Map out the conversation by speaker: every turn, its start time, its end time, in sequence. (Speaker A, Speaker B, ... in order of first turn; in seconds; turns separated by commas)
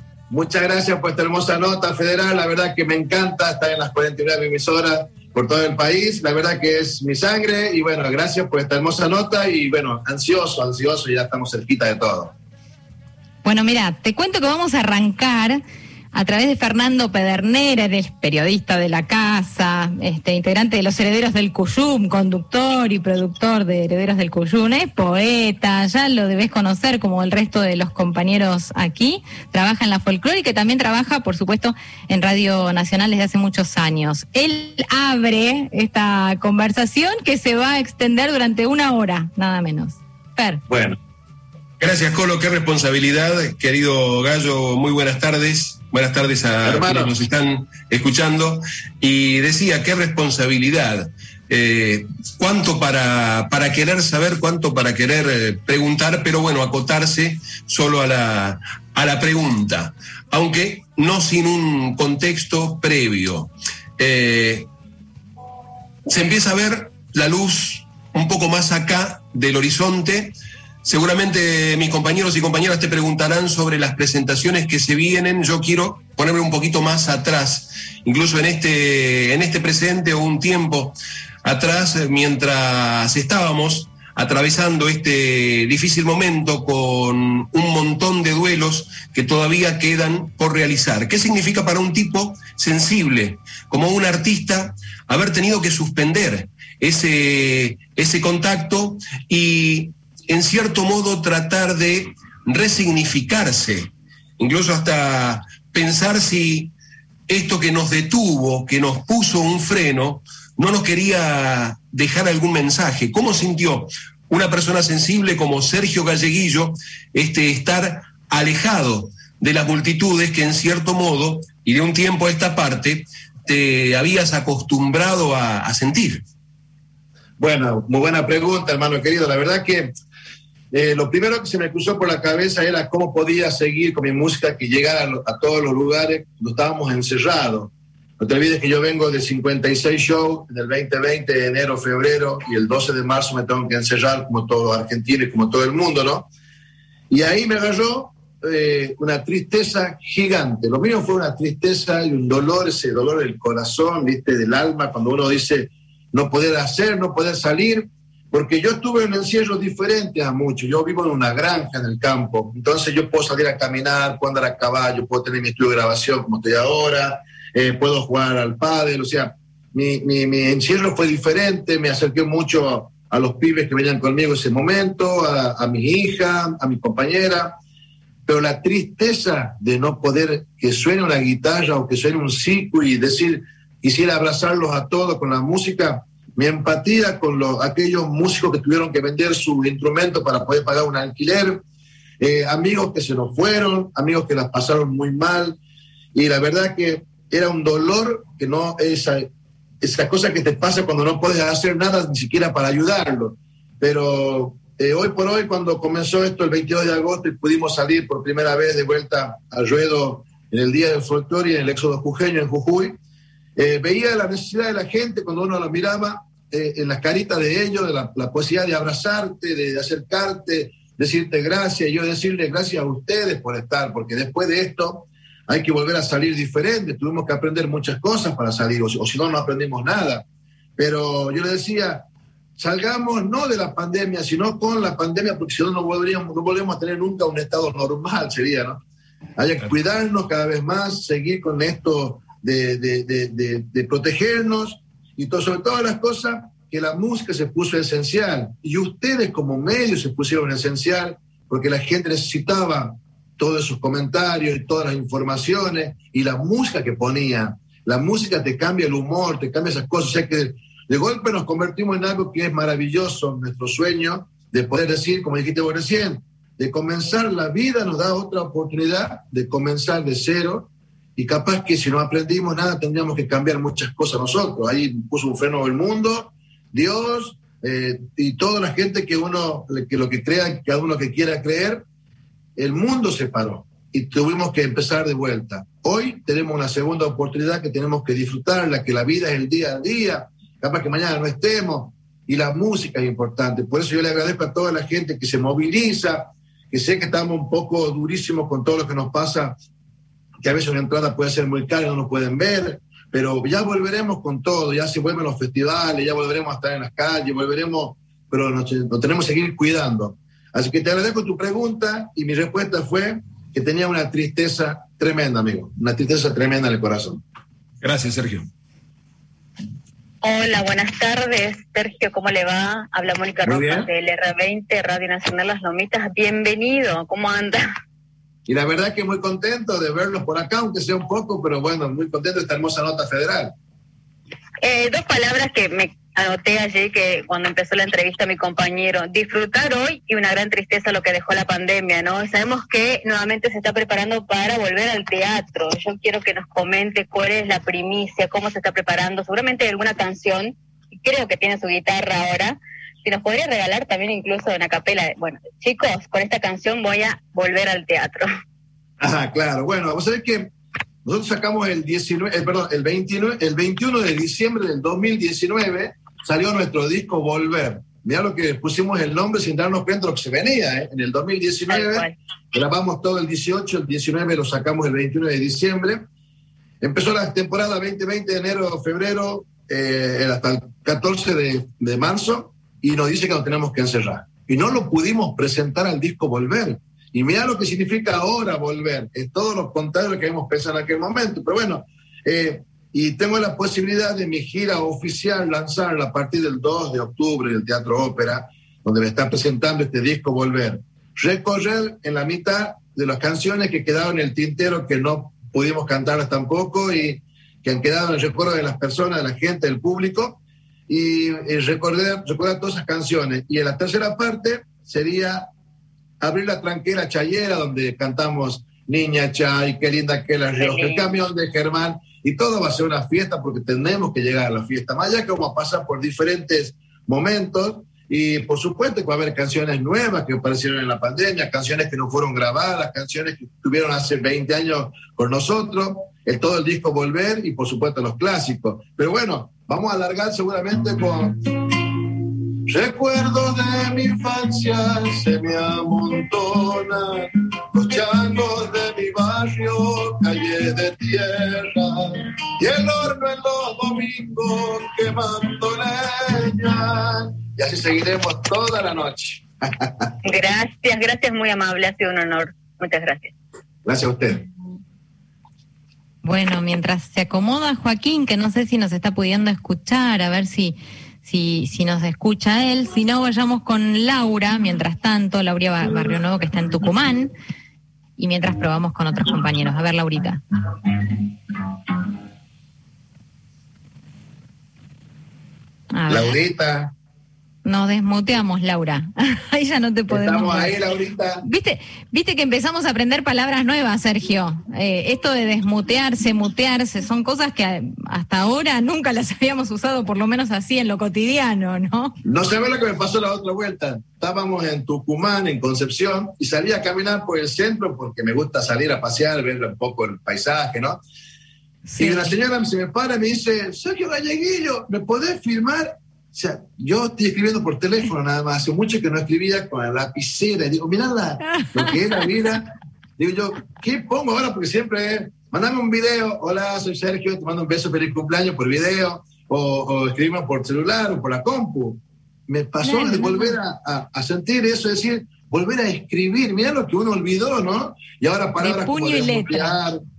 Speaker A: 0.3-12.3, Speaker B: 13.4-15.6, Speaker B: 16.1-40.6, Speaker C: 41.8-64.7, Speaker A: 46.7-47.1, Speaker C: 66.1-106.7, Speaker C: 107.3-126.2, Speaker A: 127.4-129.9, Speaker A: 130.7-146.3, Speaker A: 147.1-177.6, Speaker A: 178.2-191.6, Speaker A: 192.2-195.6, Speaker A: 196.1-199.3, Speaker A: 199.8-212.9, Speaker A: 213.6-230.2, Speaker A: 230.8-232.0, Speaker A: 232.6-238.8, Speaker A: 239.4-281.8, Speaker A: 282.6-299.6, Speaker A: 300.4-317.2, Speaker C: 317.8-318.5, Speaker D: 320.2-327.6, Speaker A: 323.4-323.9, Speaker A: 328.5-333.5, Speaker D: 334.6-358.2, Speaker A: 359.0-360.5, Speaker A: 361.0-376.0, Speaker D: 371.7-372.1, Speaker A: 376.8-415.5, Speaker A: 416.2-442.0, Speaker D: 420.6-421.1, Speaker A: 442.7-447.1, Speaker A: 447.7-451.9, Speaker A: 452.6-460.1, Speaker D: 460.2-463.3, Speaker A: 463.8-464.4, Speaker B: 466.2-477.3, Speaker B: 478.2-480.4, Speaker B: 485.9-486.3, Speaker A: 486.1-486.9, Speaker B: 487.6-490.8, Speaker A: 490.1-491.4, Speaker B: 491.4-502.1, Speaker A: 502.2-511.0, Speaker B: 511.9-512.3, Speaker A: 512.0-540.0, Speaker B: 532.8-533.5, Speaker B: 538.6-539.8